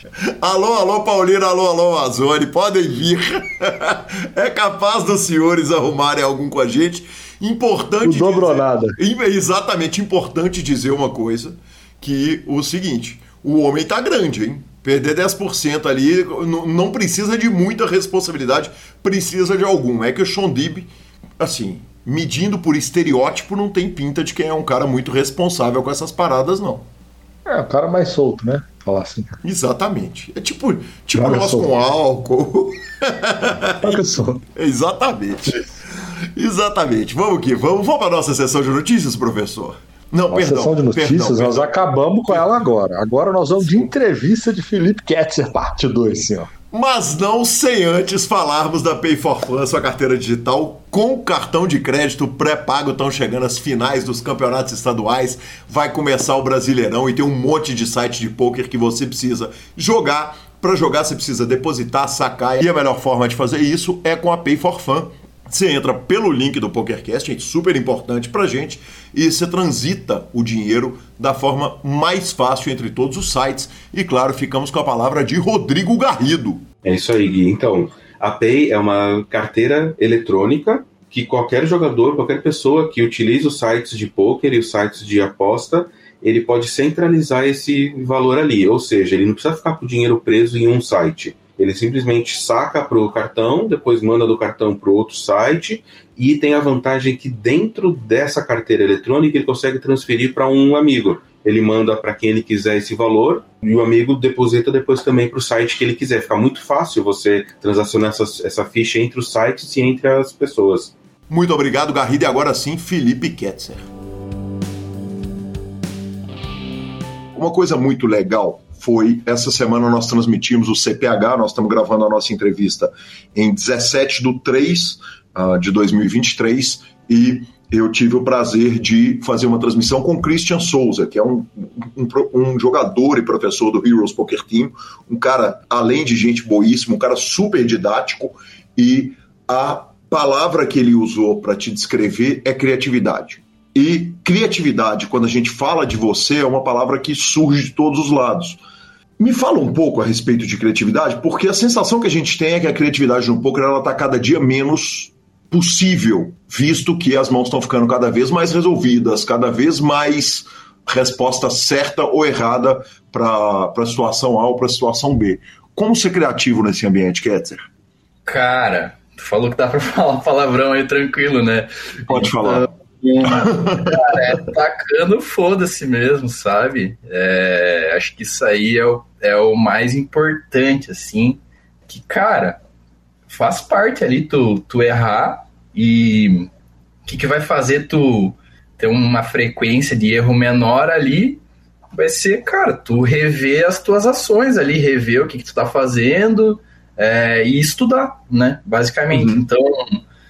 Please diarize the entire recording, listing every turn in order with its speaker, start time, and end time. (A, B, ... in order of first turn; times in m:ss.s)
0:00.4-0:26.8 A
0:08.0-0:09.0 B
0:27.4-0:29.3 B
0:29.4-0:34.0 A
0:31.2-0:31.7 B
0:33.8-0:34.4 B
0:34.5-0:35.6 A
0:36.4-0:42.5 A
0:40.3-0:46.5 B
0:46.7-1:16.7 A
1:16.8-1:50.9 C
1:51.3-1:53.9 A
1:57.3-2:28.6 A
2:29.2-2:47.6 A
2:48.2-3:02.6 D
2:52.1-2:52.6 A
2:53.3-2:54.1 A
3:03.3-3:06.5 D
3:07.0-3:11.4 D
3:11.9-3:20.0 D
3:19.1-3:19.4 A